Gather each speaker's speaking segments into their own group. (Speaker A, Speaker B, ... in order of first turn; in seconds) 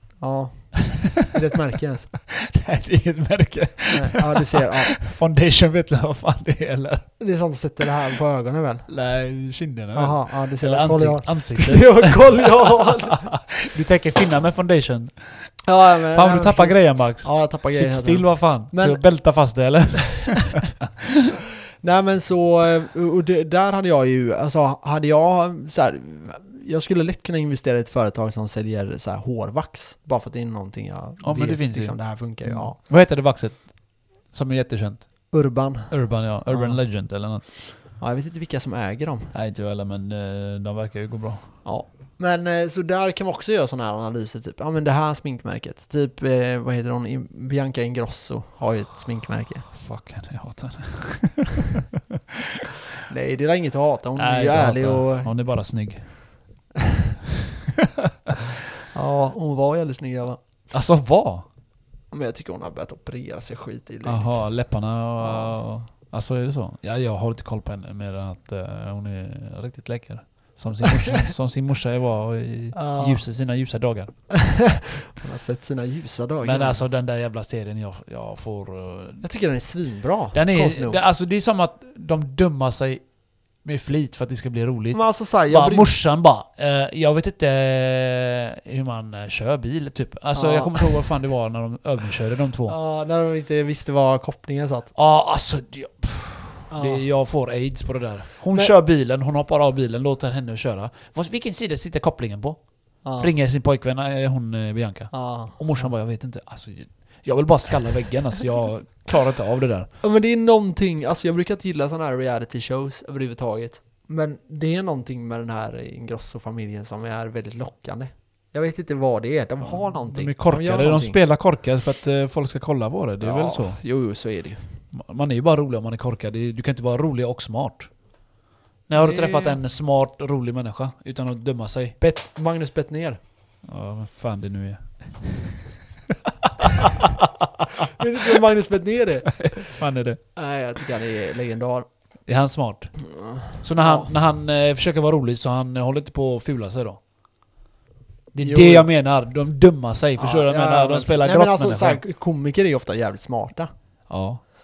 Speaker A: 0.1-2.1, 3.9-5.0, 7.2-8.9, 9.9-13.3, 15.7-19.0, 21.8-32.8, 35.3-36.8, 38.0-39.3, 41.6-49.7, 53.1-55.3, 58.9-60.4, 62.1-64.6, 65.2-65.6, 72.8-73.2, 74.3-76.8, 79.2-81.0, 84.9-86.0, 90.3-91.0, 92.7-94.9, 96.7-97.1, 103.0-103.3, 105.1-105.9, 110.0-121.2, 123.2-124.8, 128.9-129.6, 132.0-133.2, 137.9-139.8, 140.4-141.9, 143.2-144.1, 148.4-148.9, 150.2-153.7
Speaker B: 2.3-7.1, 8.9-20.7, 31.2-35.4, 35.9-37.4, 39.3-41.6, 49.7-51.8, 54.2-56.4, 60.7-61.5, 64.0-74.2, 76.4-79.2, 80.3-83.1, 83.6-92.8, 95.0-109.9, 119.6-123.8, 124.9-128.0, 128.9-132.0, 133.6-135.7, 139.3-140.2, 142.3-147.0, 148.3-152.0, 154.1-154.4